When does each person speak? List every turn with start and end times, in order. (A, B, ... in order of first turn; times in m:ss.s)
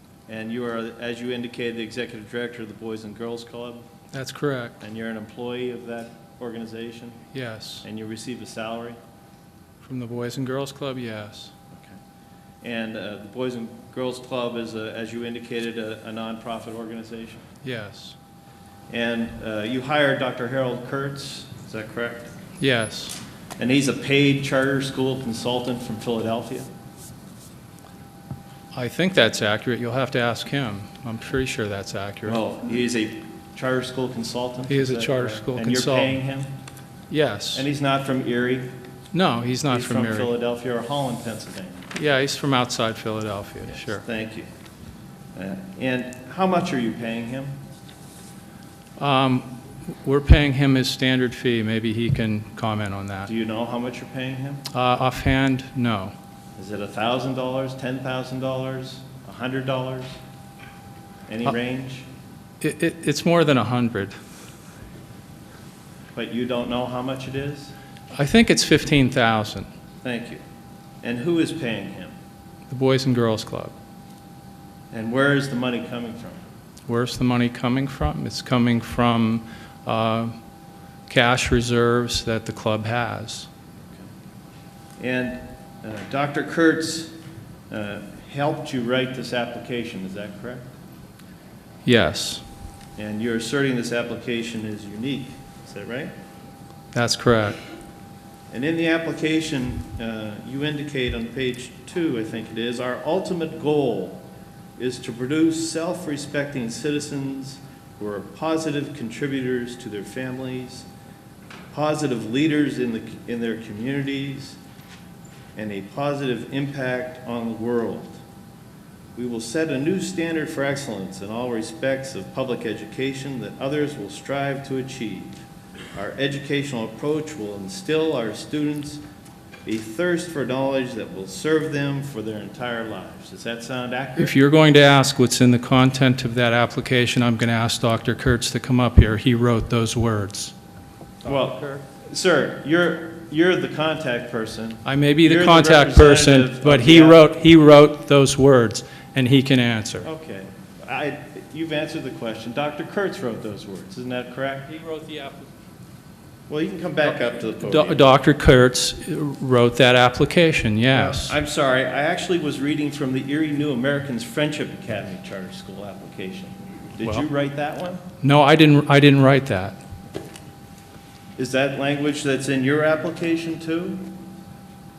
0:00.3-0:03.8 A
0:04.1-0:04.8 B
0:04.8-0:07.2 A
0:07.3-0:07.8 B
0:07.8-0:09.0 A
0:09.8-0:11.5 B
0:12.6-0:17.4 A
0:17.6-0:18.2 B
0:18.9-0:22.3 A
0:22.6-0:23.2 B
0:23.6-0:26.7 A
0:28.7-0:32.4 B
0:32.2-0:36.5 A
0:34.7-0:36.2 B
0:37.1-0:37.6 B
0:37.5-0:38.7 A
0:39.1-0:40.3 B
0:39.7-0:41.9 A
0:41.9-0:44.0 B
0:44.0-0:44.5 A
0:45.3-0:47.5 A
0:49.0-0:53.3 B
0:53.3-0:54.6 A
0:54.7-0:56.1 B
0:56.6-1:00.2 A
1:01.3-1:02.1 A
1:02.6-1:04.2 B
1:06.1-1:07.7 A
1:08.1-1:09.7 B
1:10.0-1:10.4 A
1:11.0-1:12.1 A
1:12.7-1:13.7 B
1:14.9-1:16.4 A
1:16.9-1:20.3 B
1:21.1-1:23.5 B
1:25.0-1:27.1 A
1:27.7-1:30.6 A
1:31.8-1:32.4 B
1:33.0-1:36.1 A
1:36.9-1:37.6 B
1:38.5-1:44.2 A
1:44.8-1:50.9 A
1:51.7-1:54.6 A
1:55.5-1:58.2 A
1:59.2-2:05.4 A
2:05.9-2:09.0 A
2:09.6-2:14.3 A
2:14.2-2:20.5 B
2:21.2-2:27.2 A
2:24.8-2:30.1 B
2:30.0-2:34.7 A
2:34.7-2:35.5 B
2:36.5-2:38.0 A
2:37.0-2:41.3 B
2:40.9-2:48.0 A
2:47.0-2:47.2 B
2:48.2-2:49.8 B
2:51.4-2:54.1 A